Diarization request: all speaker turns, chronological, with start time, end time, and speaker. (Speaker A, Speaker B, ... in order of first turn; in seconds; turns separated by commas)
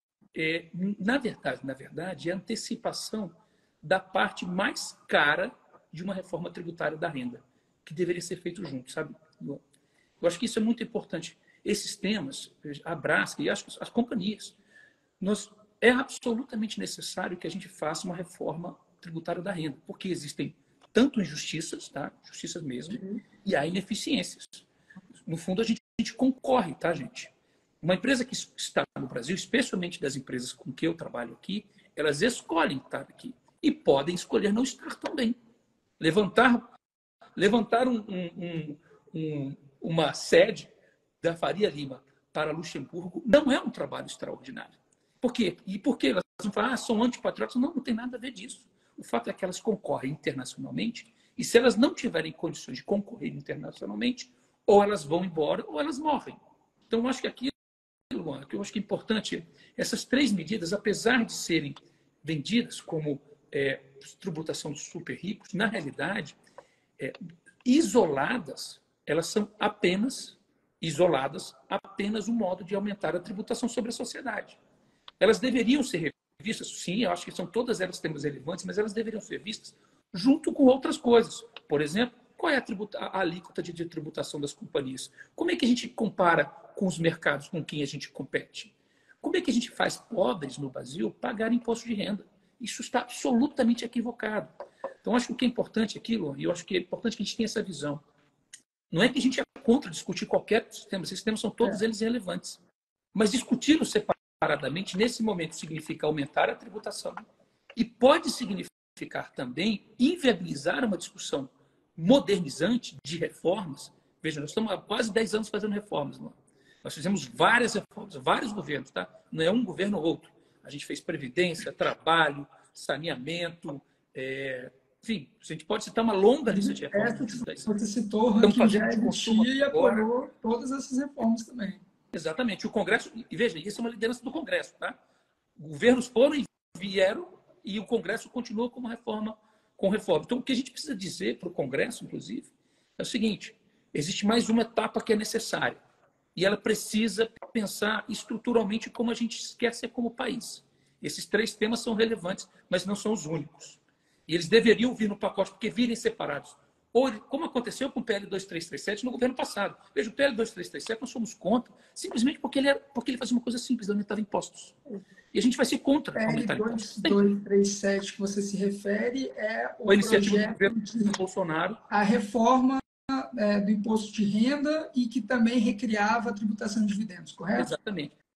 Speaker A: 0.3-9.6, Speaker A: 10.2-14.6, Speaker A: 15.2-24.6, Speaker A: 25.2-27.3, Speaker A: 27.8-35.4, Speaker A: 36.0-36.7, Speaker A: 37.3-40.7, Speaker A: 41.2-56.4, Speaker A: 56.9-57.5, Speaker A: 58.1-66.3, Speaker A: 67.0-74.6, Speaker A: 75.2-94.5, Speaker A: 95.0-98.0, Speaker A: 98.9-102.6, Speaker A: 103.1-127.7, Speaker B: 126.5-131.8, Speaker A: 128.4-130.0, Speaker A: 132.1-135.0, Speaker A: 135.6-145.8, Speaker A: 146.3-164.8, Speaker A: 165.3-167.2, Speaker B: 166.2-171.1, Speaker A: 169.9-171.8, Speaker B: 171.9-177.7, Speaker A: 177.5-178.1